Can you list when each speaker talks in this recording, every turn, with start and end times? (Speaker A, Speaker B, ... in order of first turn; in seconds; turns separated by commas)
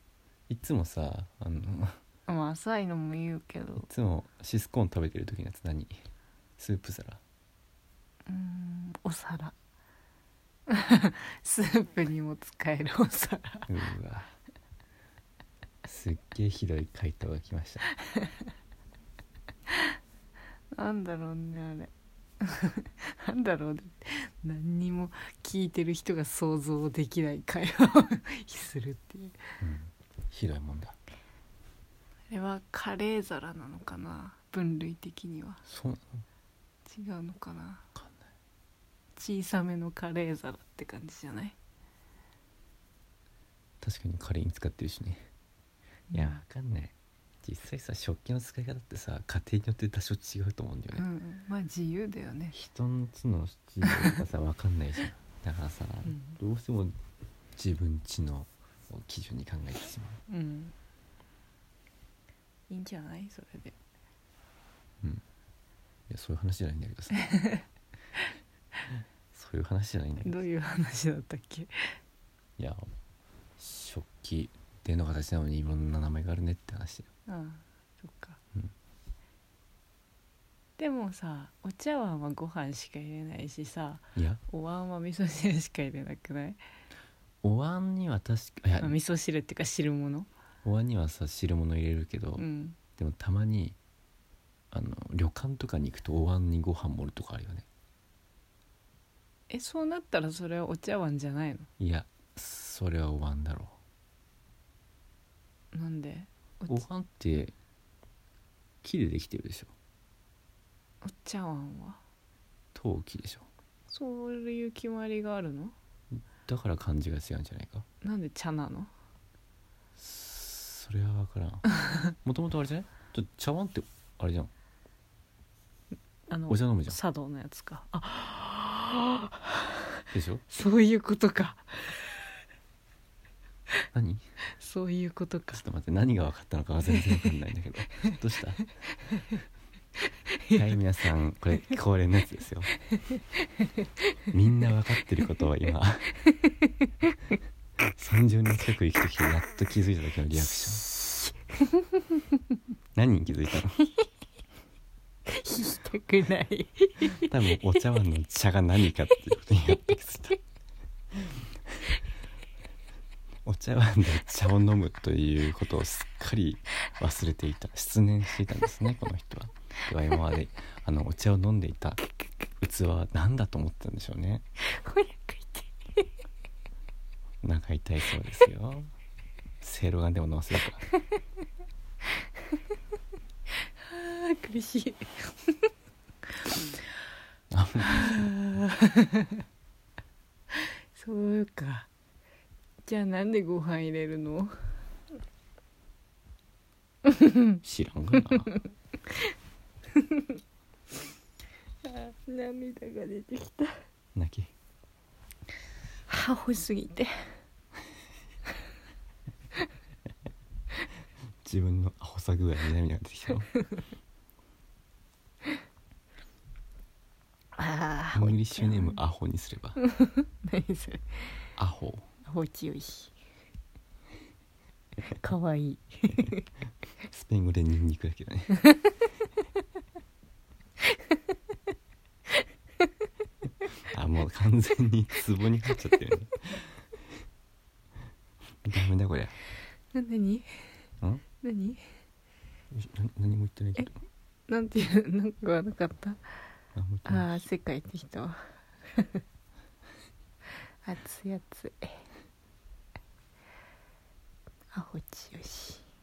Speaker A: 0.5-2.0, Speaker B: 2.3-3.9, Speaker A: 3.8-6.0, Speaker A: 6.6-7.2, Speaker B: 8.3-9.5, Speaker B: 10.7-13.7, Speaker A: 13.7-14.3, Speaker A: 15.8-17.9, Speaker B: 20.7-29.4, Speaker A: 29.6-31.0, Speaker B: 32.3-35.6, Speaker A: 35.6-36.2, Speaker B: 36.9-37.8, Speaker A: 37.9-38.2, Speaker B: 39.1-41.5, Speaker A: 43.8-45.3, Speaker B: 46.1-46.4, Speaker A: 46.1-51.0, Speaker B: 50.9-52.5, Speaker A: 52.5-57.0, Speaker B: 53.8-54.1, Speaker B: 56.1-56.4, Speaker A: 57.5-60.2, Speaker B: 60.3-60.7, Speaker B: 62.7-63.8, Speaker A: 66.1-67.2, Speaker B: 67.3-67.6, Speaker A: 69.3-70.4, Speaker B: 70.2-72.0, Speaker A: 72.6-72.9, Speaker A: 73.6-77.1, Speaker B: 77.3-78.4, Speaker B: 80.8-86.6, Speaker A: 84.2-84.4, Speaker A: 87.4-89.0, Speaker B: 88.8-90.3, Speaker A: 90.6-92.4, Speaker B: 92.3-92.8, Speaker A: 93.0-93.8, Speaker A: 94.7-97.7, Speaker B: 99.5-101.7, Speaker A: 101.8-103.8, Speaker B: 105.7-106.8, Speaker A: 106.7-107.5, Speaker A: 108.8-109.7, Speaker B: 111.0-112.0, Speaker A: 112.7-113.5, Speaker B: 113.9-115.7, Speaker A: 116.2-117.8, Speaker B: 118.0-118.9, Speaker A: 120.0-121.6, Speaker A: 122.2-124.5, Speaker B: 126.3-129.8, Speaker A: 126.5-127.0, Speaker A: 130.1-130.4, Speaker B: 130.5-132.1, Speaker A: 133.9-134.2, Speaker B: 134.6-135.6, Speaker A: 135.5-138.6, Speaker B: 136.9-137.3, Speaker A: 140.5-142.7, Speaker A: 144.3-146.2, Speaker B: 146.4-147.1, Speaker A: 147.9-150.8, Speaker B: 150.8-152.0, Speaker A: 152.9-153.8, Speaker B: 155.3-157.6, Speaker A: 157.1-160.4, Speaker A: 163.4-172.0, Speaker A: 172.6-174.4, Speaker B: 174.6-176.0, Speaker A: 177.4-178.9, Speaker A: 179.6-180.8, Speaker B: 183.8-185.5, Speaker A: 187.5-188.3, Speaker B: 187.9-189.3, Speaker B: 190.9-191.9, Speaker B: 192.8-194.5, Speaker B: 197.1-197.4, Speaker A: 197.6-198.5, Speaker B: 201.8-203.8, Speaker A: 204.1-204.5, Speaker B: 206.1-207.1, Speaker A: 211.4-213.5, Speaker B: 217.6-218.9, Speaker A: 218.1-219.8, Speaker B: 219.8-221.3, Speaker A: 221.6-222.1, Speaker B: 222.2-223.1, Speaker B: 225.1-226.4, Speaker A: 227.1-228.5, Speaker A: 233.9-236.8, Speaker A: 238.6-239.3, Speaker B: 239.9-240.7, Speaker B: 241.4-241.9, Speaker A: 242.7-244.0, Speaker B: 244.5-246.3, Speaker A: 246.7-247.4, Speaker B: 247.1-248.4, Speaker B: 248.9-249.2, Speaker B: 250.8-252.0, Speaker B: 254.7-255.8